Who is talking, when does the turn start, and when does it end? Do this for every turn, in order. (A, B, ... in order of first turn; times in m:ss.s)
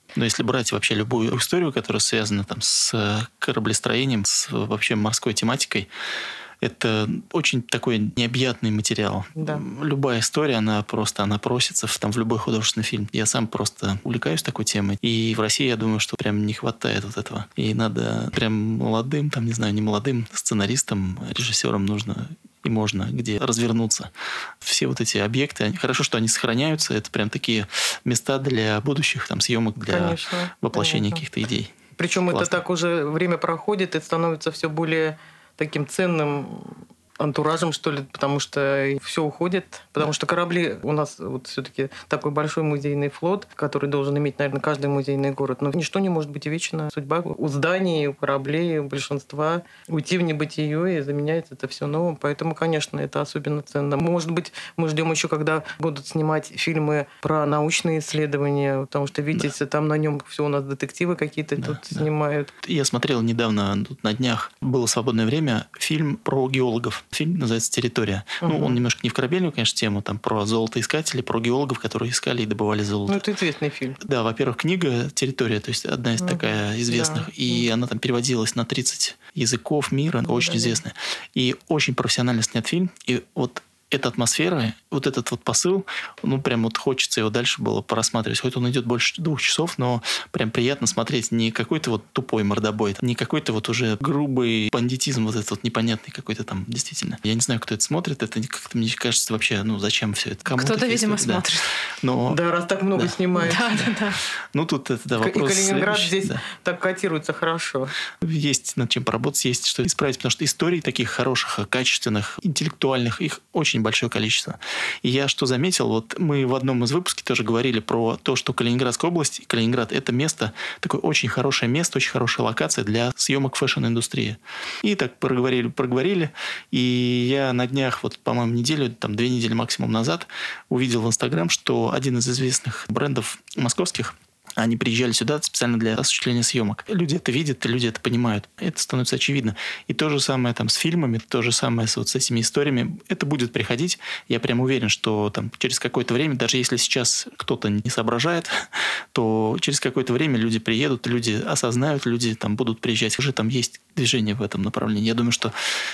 0:00.2-0:05.9 A
0:06.6-0:31.8 A
0:09.4-0:09.6 B
0:29.8-0:31.2 B
0:32.0-1:02.5 B
0:32.3-0:32.6 A
1:01.6-1:02.0 A
1:02.6-1:13.2 A
1:08.4-1:08.8 B
1:13.1-1:14.0 B
1:14.0-1:42.4 A
1:16.2-1:17.7 B
1:20.2-1:20.8 B
1:40.5-1:41.7 C
1:42.3-1:43.9 B
1:43.4-1:44.2 C
1:44.5-1:46.4 A
1:45.2-1:47.9 B
1:48.2-2:35.5 A